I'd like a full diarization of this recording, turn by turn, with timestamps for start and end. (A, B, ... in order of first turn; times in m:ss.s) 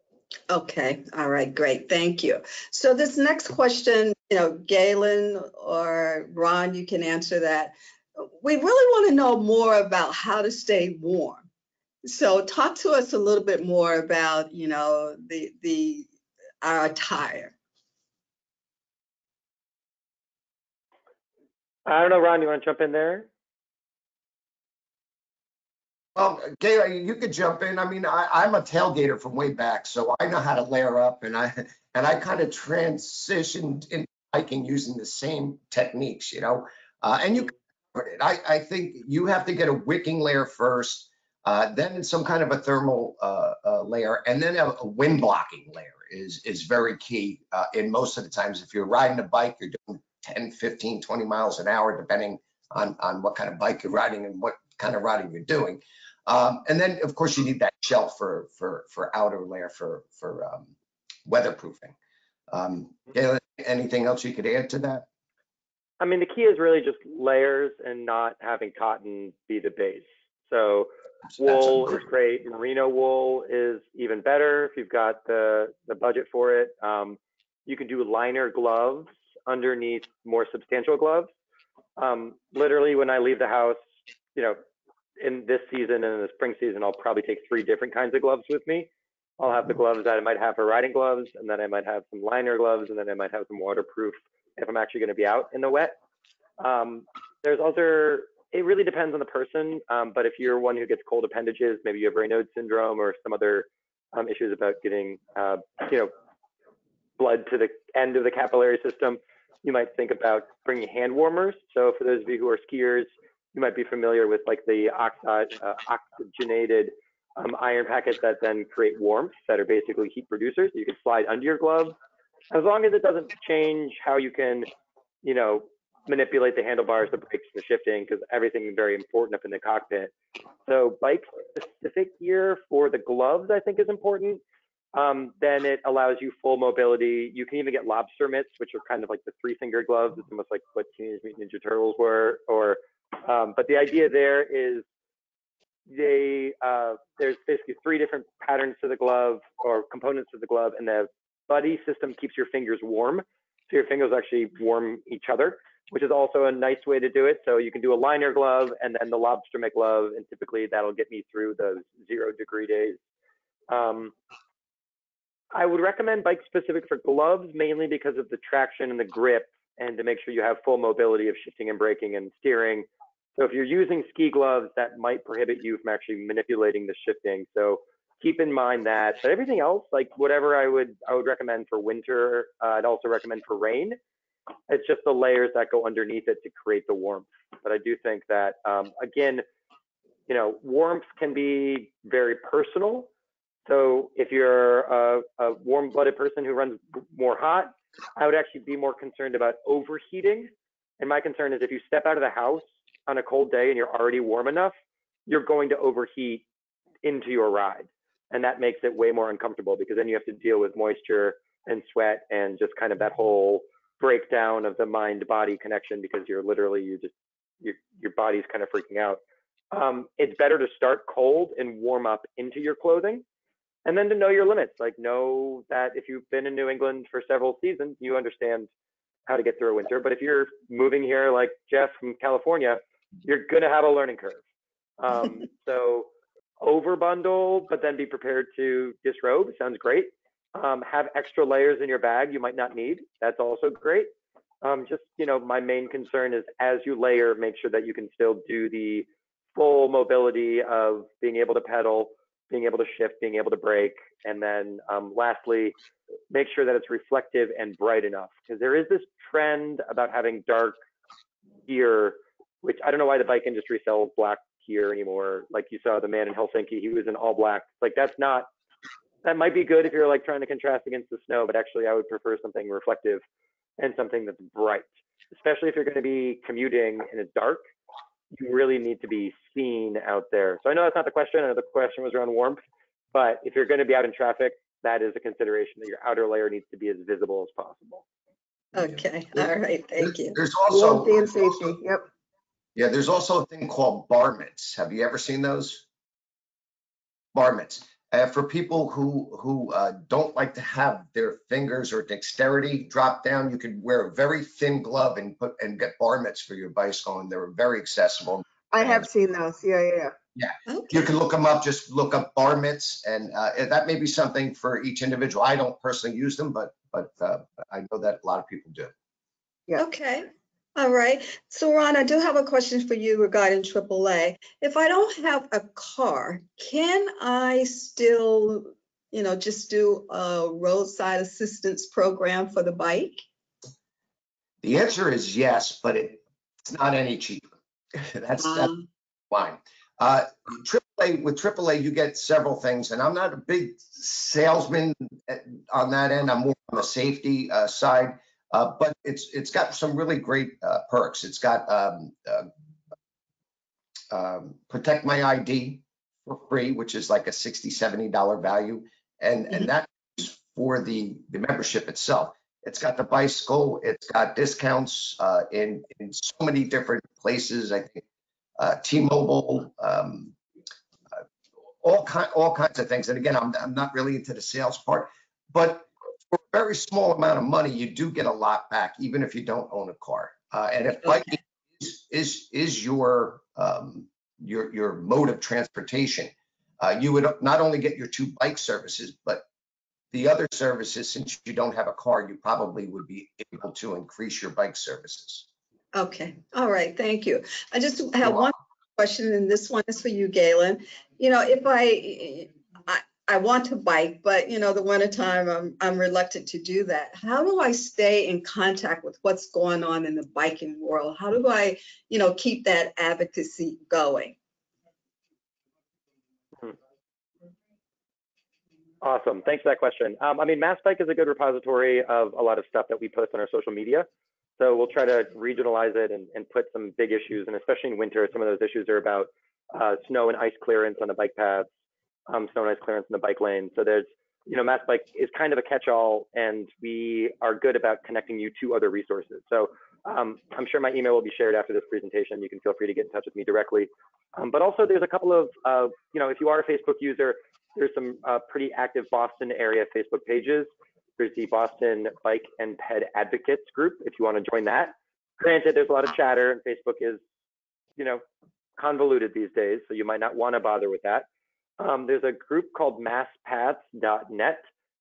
0:00.5-0:11.4 A
0:12.0-0:16.1 A
0:16.6-0:17.6 A
0:21.9-0:23.3 B
0:26.1-1:00.7 C
1:01.3-1:01.9 C
1:02.5-1:05.1 C
1:06.0-1:21.3 B
1:11.4-1:12.0 C
1:22.0-1:23.8 B
1:25.2-1:36.0 B
1:36.6-1:46.1 B
1:47.2-2:02.0 B
2:02.5-2:04.7 B
2:05.2-2:10.1 B
2:10.7-2:14.4 B
2:14.9-2:24.8 B
2:25.9-2:43.0 B
2:43.7-2:44.1 B
2:45.5-3:04.0 B
3:04.7-3:09.4 B
3:10.3-3:13.1 B
3:13.7-3:24.7 B
3:25.3-3:26.4 B
3:27.0-3:43.2 B
3:43.8-3:48.7 B
3:49.3-3:54.4 B
3:55.0-3:56.1 B
3:56.6-4:04.1 B
4:04.6-4:15.7 B
4:16.3-4:20.8 B
4:21.7-4:28.5 B
4:29.2-4:33.2 B
4:33.8-4:37.6 B
4:38.3-4:42.6 B
4:43.1-4:48.0 B
4:48.7-4:50.4 A
4:48.8-4:51.7 C
4:50.7-4:52.0 D
4:52.7-4:55.8 C
4:57.3-5:09.1 C
5:08.7-5:10.1 D
5:10.4-5:18.9 C
5:10.7-5:11.0 A
5:19.8-5:33.2 A
5:34.6-5:38.7 C
5:38.4-5:38.8 A
5:39.3-5:52.5 C
5:54.1-6:08.0 C
6:08.6-6:10.4 C
6:11.8-6:29.4 C
6:30.1-6:35.5 C
6:35.9-6:54.4 A
6:38.2-6:38.5 C
6:59.0-7:04.1 B
7:04.6-7:11.7 B
7:12.3-7:37.2 B
7:38.0-7:38.2 B
7:38.8-7:41.3 B
7:41.8-7:44.6 B